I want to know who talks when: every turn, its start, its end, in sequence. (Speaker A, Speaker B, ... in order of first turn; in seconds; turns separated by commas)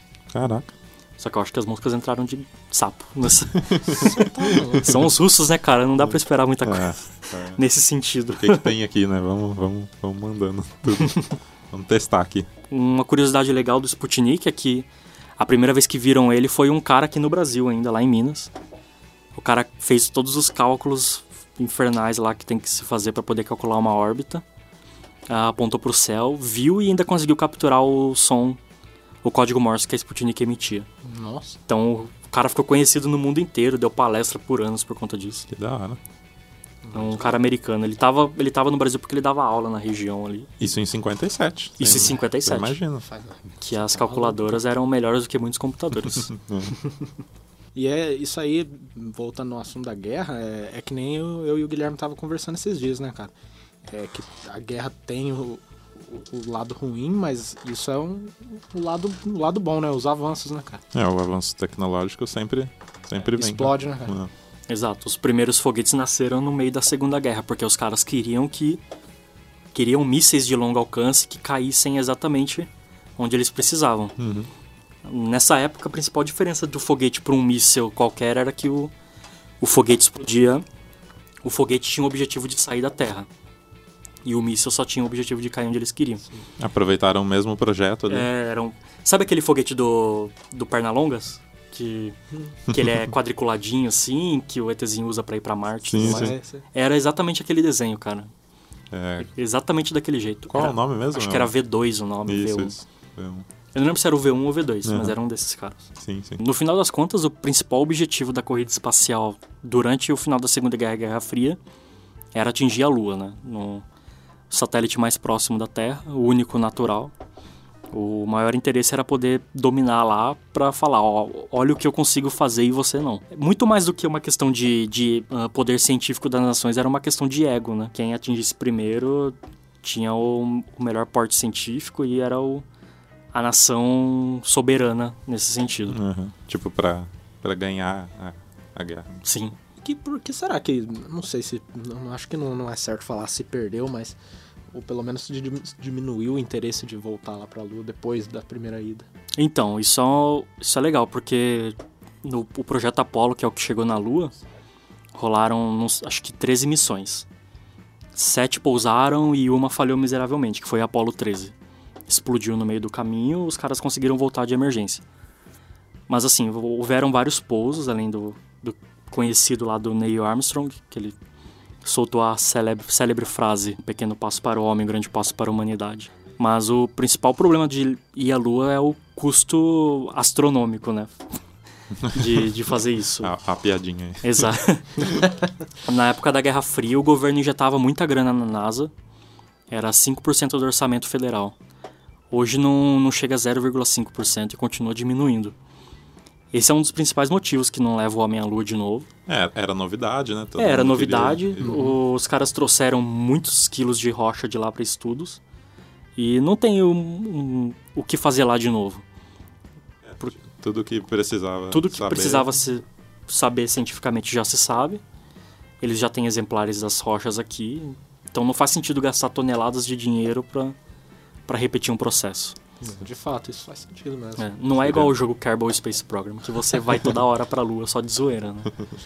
Speaker A: 0.3-0.7, Speaker B: 1.2-8.7, Speaker A: 3.5-4.1, Speaker C: 3.9-5.1, Speaker A: 6.0-7.6, Speaker A: 8.4-12.5, Speaker B: 12.7-14.9, Speaker B: 15.4-18.5, Speaker B: 19.4-24.4, Speaker B: 25.3-28.6, Speaker B: 29.2-30.9, Speaker C: 31.0-31.6, Speaker B: 31.7-35.5, Speaker A: 35.5-36.0, Speaker C: 36.9-37.3, Speaker B: 36.9-40.5, Speaker A: 40.6-43.0, Speaker B: 41.8-42.8, Speaker C: 43.1-44.6, Speaker B: 43.6-46.3, Speaker A: 46.1-46.7, Speaker C: 47.8-53.3, Speaker C: 53.9-60.8, Speaker A: 60.9-64.3, Speaker C: 63.2-64.2, Speaker B: 64.7-68.8, Speaker B: 69.7-74.2, Speaker A: 74.2-74.5, Speaker B: 75.0-78.9, Speaker B: 79.6-80.6, Speaker B: 81.4-83.3, Speaker B: 84.2-86.2, Speaker A: 86.6-88.3, Speaker B: 88.1-92.2, Speaker B: 92.7-98.3, Speaker A: 92.7-93.1, Speaker A: 95.9-96.3, Speaker C: 96.0-96.6, Speaker A: 98.9-99.3, Speaker B: 99.2-102.8, Speaker A: 100.5-101.5, Speaker A: 102.2-103.5, Speaker B: 103.7-111.6, Speaker A: 104.8-105.2, Speaker A: 106.0-106.4, Speaker B: 112.3-113.8, Speaker B: 114.5-117.1, Speaker B: 117.9-132.7, Speaker B: 133.3-136.0, Speaker A: 135.9-139.2, Speaker B: 139.2-139.6, Speaker C: 139.8-144.2, Speaker C: 144.7-149.1, Speaker B: 149.4-154.4, Speaker B: 155.2-157.3, Speaker B: 158.2-161.5, Speaker B: 162.1-165.0, Speaker B: 166.1-171.2, Speaker B: 171.8-181.2, Speaker A: 182.0-182.5, Speaker B: 182.1-183.3, Speaker A: 183.2-185.2, Speaker B: 184.2-185.3, Speaker B: 185.8-188.9, Speaker B: 189.7-191.6, Speaker B: 192.3-195.6, Speaker B: 196.5-199.1, Speaker A: 199.3-201.8, Speaker B: 200.6-205.4, Speaker C: 201.6-201.9, Speaker B: 206.2-209.0, Speaker A: 210.1-212.5, Speaker B: 211.7-215.0, Speaker B: 215.8-220.8, Speaker B: 221.5-222.6, Speaker C: 222.8-224.5, Speaker B: 224.4-228.7, Speaker A: 224.8-225.1